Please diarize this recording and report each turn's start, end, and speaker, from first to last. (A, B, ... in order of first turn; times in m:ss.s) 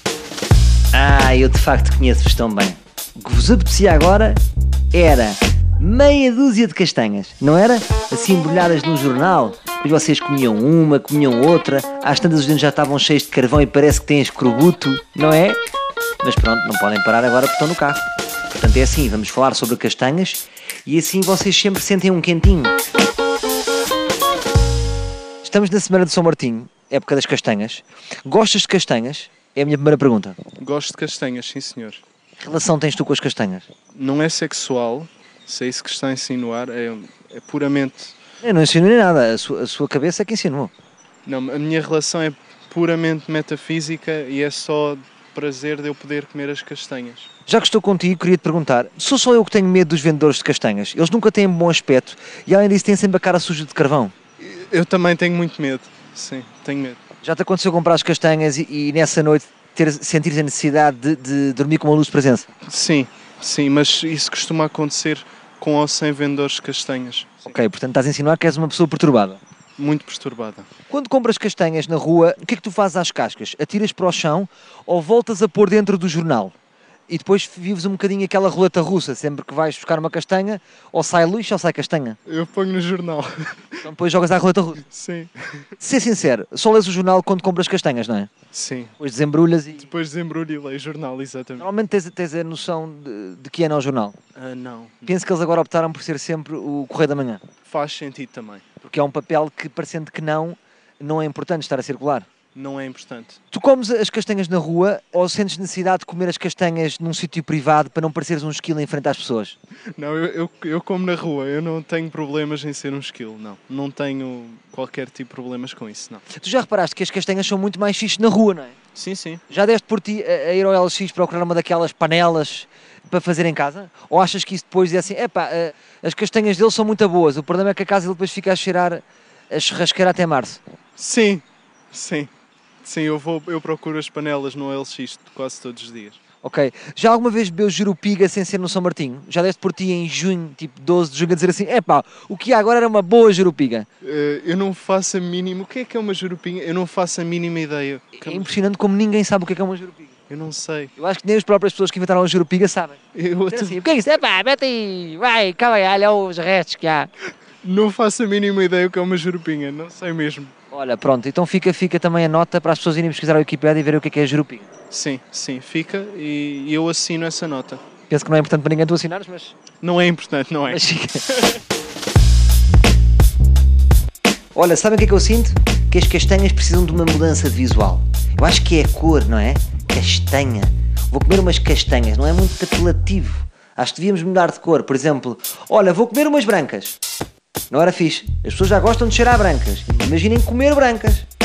0:00.9-0:04.4 A
0:04.9-0:15.6 A
0:16.2-0:22.8 A
0:25.4-0:30.4 A
0:30.6-0:32.0 B
0:32.4-0:33.7 A
0:33.9-0:38.2 B
0:38.4-0:40.7 A
0:41.2-0:47.3 B
0:47.5-0:54.1 A
0:54.4-0:57.0 B
0:57.2-1:02.5 A
1:02.6-1:07.5 B
1:07.4-1:09.4 A
1:09.8-1:10.7 B
1:10.9-1:16.5 A
1:17.1-1:22.2 A
1:22.3-1:23.8 B
1:23.8-1:24.8 A
1:24.8-1:25.6 B
1:25.8-1:28.3 A
1:28.5-1:29.0 B
1:29.0-1:29.8 A
1:29.8-1:31.7 B
1:31.6-1:34.2 A
1:34.4-1:35.1 B
1:35.1-1:37.4 A
1:37.7-1:38.6 B
1:38.8-1:42.2 A
1:42.5-1:43.4 B
1:43.5-1:49.6 A
1:49.9-1:56.2 B
1:56.4-1:58.7 A
1:58.9-1:59.4 B
1:59.5-2:10.6 A
2:11.0-2:12.3 B
2:12.8-2:16.2 B
2:16.4-2:23.9 A
2:24.0-2:28.5 B
2:28.2-2:30.1 A
2:30.3-2:30.9 B
2:31.0-2:33.0 A
2:33.1-2:33.8 B
2:33.5-2:37.1 A
2:37.6-2:40.5 B
2:40.7-2:44.7 A
2:44.9-2:47.8 B
2:48.1-2:49.5 A
2:49.8-2:50.8 B
2:50.7-2:51.4 A
2:54.5-3:07.0 A
3:07.7-3:11.3 A